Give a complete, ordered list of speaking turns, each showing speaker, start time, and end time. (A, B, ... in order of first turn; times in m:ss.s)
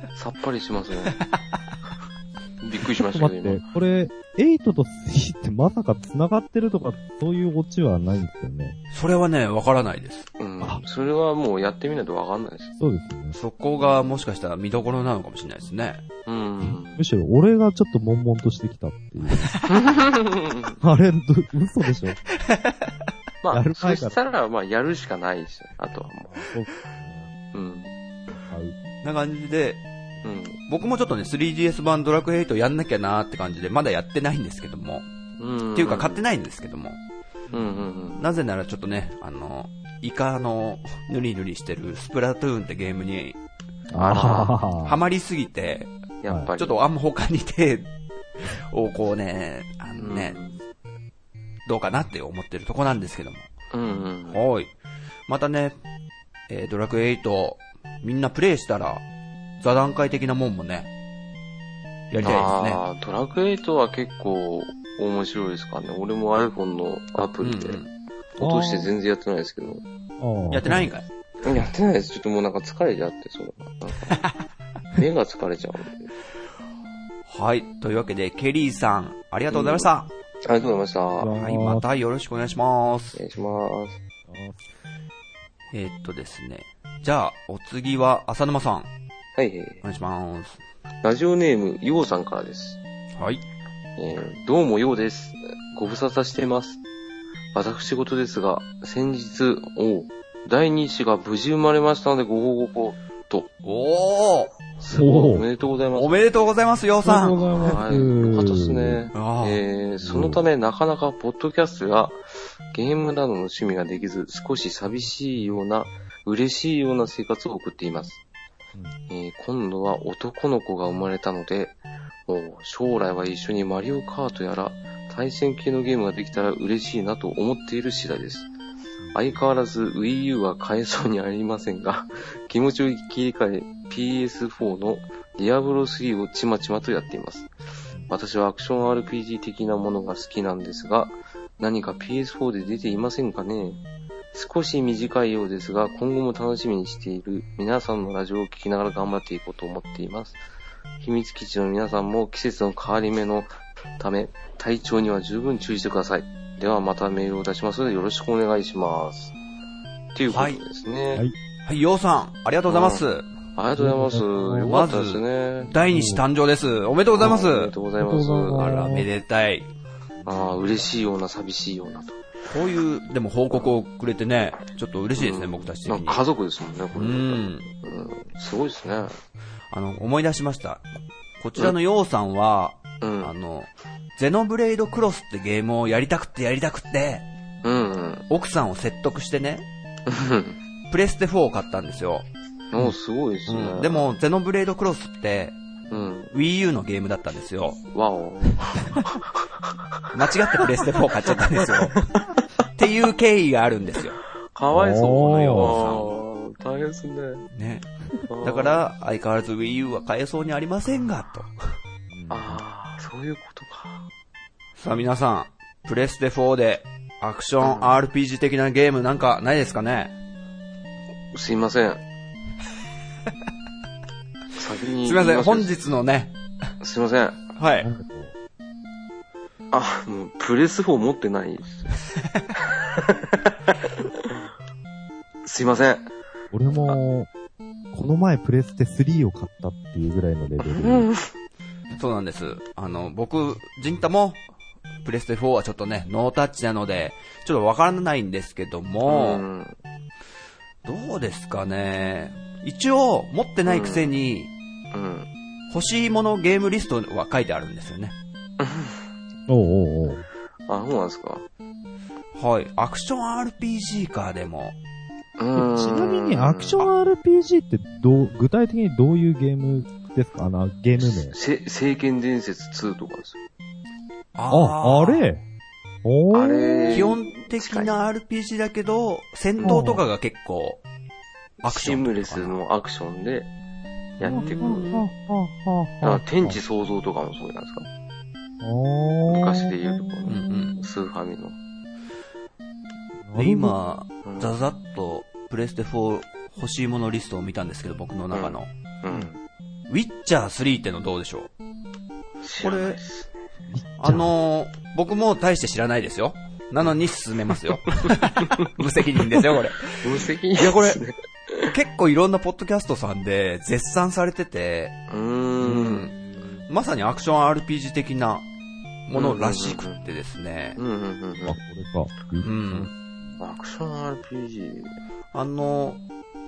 0:00.2-0:01.2 A
0:02.6-0:03.6 A
0:03.0-0:08.8 B
0:08.9-0:10.3 C
0:10.4-0:12.7 A
0:12.8-0:13.4 B
0:13.3-0:16.0 C
0:16.3-0:17.0 A
0:16.6-0:19.6 B
0:19.2-0:19.8 C
0:19.7-0:20.8 A
0:20.8-0:22.2 B
0:23.4-0:26.3 A
0:23.5-0:24.2 B
0:26.3-0:27.3 B
0:27.5-0:27.9 A
0:28.5-0:28.8 B
0:29.0-0:29.8 C
0:30.2-0:30.6 A
0:30.7-0:35.1 C
0:35.4-0:36.2 A
0:35.8-0:37.0 C
0:37.5-0:38.2 A
0:38.2-0:43.4 C
0:43.9-0:45.0 B
0:44.0-0:45.9 C
0:44.1-0:44.5 A
0:46.2-0:46.8 A
0:46.6-0:50.4 C
0:50.0-0:50.6 A
0:51.7-0:53.5 C
0:53.7-0:54.4 A
0:54.3-0:54.7 C
0:55.3-0:55.8 C
0:56.5-0:59.0 C
0:59.6-1:00.9 C
1:02.1-1:02.8 C
1:02.2-1:07.8 A
1:07.4-1:07.9 C
1:08.4-1:09.8 A
1:08.4-1:08.9 B
1:10.2-1:10.9 B
1:10.5-1:11.1 C
1:11.4-1:14.2 A
1:15.0-1:16.1 A
1:17.3-1:20.1 C
1:19.5-1:19.9 A
1:20.4-1:21.4 A
1:21.2-1:21.8 B
1:21.3-1:23.2 C
1:23.2-1:24.0 A
1:24.3-1:24.6 B
1:25.7-1:28.9 C
1:29.4-1:29.8 A
1:29.8-1:30.6 C
1:31.0-1:32.8 A
1:33.2-1:33.4 C
1:34.0-1:36.8 A
1:37.5-1:43.5 A
1:43.6-1:44.6 C
1:44.8-1:46.2 A
1:44.9-1:45.5 B
1:46.0-1:47.4 C
1:47.0-1:49.1 B
1:47.6-1:58.2 A
1:49.1-1:49.6 C
1:50.0-1:50.4 B
1:59.1-2:08.5 A
2:09.1-2:17.5 A
2:18.1-2:23.8 A
2:24.3-2:30.4 A
2:31.0-2:39.3 A
2:40.2-2:41.2 A
2:40.3-2:40.6 C
2:41.6-2:43.3 C
2:42.7-2:43.0 A
2:43.6-2:45.7 A
2:43.8-2:44.7 B
2:44.6-2:47.7 C
2:45.8-2:46.2 B
2:47.1-2:49.0 A
2:48.0-2:49.1 B
2:48.6-2:49.7 C
2:50.2-2:50.8 B
2:50.3-2:52.2 A
2:52.5-2:56.2 C
2:55.2-2:59.2 A
2:57.0-2:57.7 C
2:59.7-3:00.8 C
3:01.4-3:07.3 C
3:03.0-3:03.3 A
3:07.6-3:08.2 A
3:08.3-3:09.7 C
3:10.1-3:10.6 A
3:10.9-3:12.3 C
3:12.7-3:14.1 A
3:13.5-3:15.6 C
3:15.9-3:16.3 A
3:16.3-3:17.8 C
3:17.9-3:19.7 A
3:20.1-3:22.1 C
3:21.3-3:22.3 A
3:22.8-3:24.2 C
3:24.5-3:27.5 A
3:24.7-3:25.8 B
3:25.0-3:26.2 C
3:27.5-3:27.9 C
3:28.3-3:28.8 A
3:28.4-3:31.5 C
3:32.1-3:32.6 B
3:32.3-3:34.1 A
3:34.8-3:40.2 C
3:37.6-3:38.0 A
3:41.3-3:42.0 A
3:44.6-3:45.7 A
3:45.0-3:46.4 C
3:46.8-3:47.4 A
3:47.6-3:47.9 C
3:47.8-3:48.3 B
3:49.7-3:51.9 A
3:52.6-3:53.8 A
3:55.4-3:56.1 A
3:56.5-3:57.3 B
3:57.9-4:01.1 B
4:00.6-4:01.3 A
4:02.0-4:04.4 C
4:05.0-4:09.4 C
4:09.1-4:09.8 A
4:10.8-4:14.5 C
4:13.6-4:14.1 A
4:14.9-4:15.3 A
4:15.7-4:18.2 C
4:18.6-4:19.0 A
4:19.5-4:20.2 B
4:20.7-4:21.4 A
4:22.4-4:24.8 C
4:25.4-4:26.8 A
4:25.6-4:31.4 B
4:31.0-4:33.4 A
4:34.4-4:35.3 C
4:34.5-4:35.4 B
4:36.0-4:37.1 B
4:36.3-4:37.9 A
4:36.9-4:40.8 C
4:39.6-4:39.8 A
4:39.6-4:40.0 B
4:41.6-4:42.6 C
4:41.6-4:43.5 A
4:44.2-4:45.0 A
4:44.2-4:45.0 C
4:44.2-4:46.6 B
4:46.0-4:47.9 A
4:48.6-4:50.7 B
4:49.3-4:51.6 A
4:50.3-4:50.8 C
4:53.2-4:53.8 B
4:53.4-4:58.7 C
4:54.2-4:54.5 A
4:58.3-4:59.4 A
4:59.9-5:01.5 C
5:02.4-5:03.4 A
5:02.6-5:03.0 C
5:03.7-5:04.3 B
5:04.0-5:11.0 C
5:10.0-5:11.7 A
5:11.7-5:15.0 C
5:15.1-5:16.1 A
5:15.6-5:16.2 C
5:16.2-5:16.6 B
5:16.7-5:18.5 C
5:19.1-5:20.8 C
5:19.1-5:20.0 A
5:20.8-5:21.6 A
5:21.5-5:22.9 B
5:22.4-5:22.9 C
5:23.4-5:25.0 A
5:25.3-5:26.0 C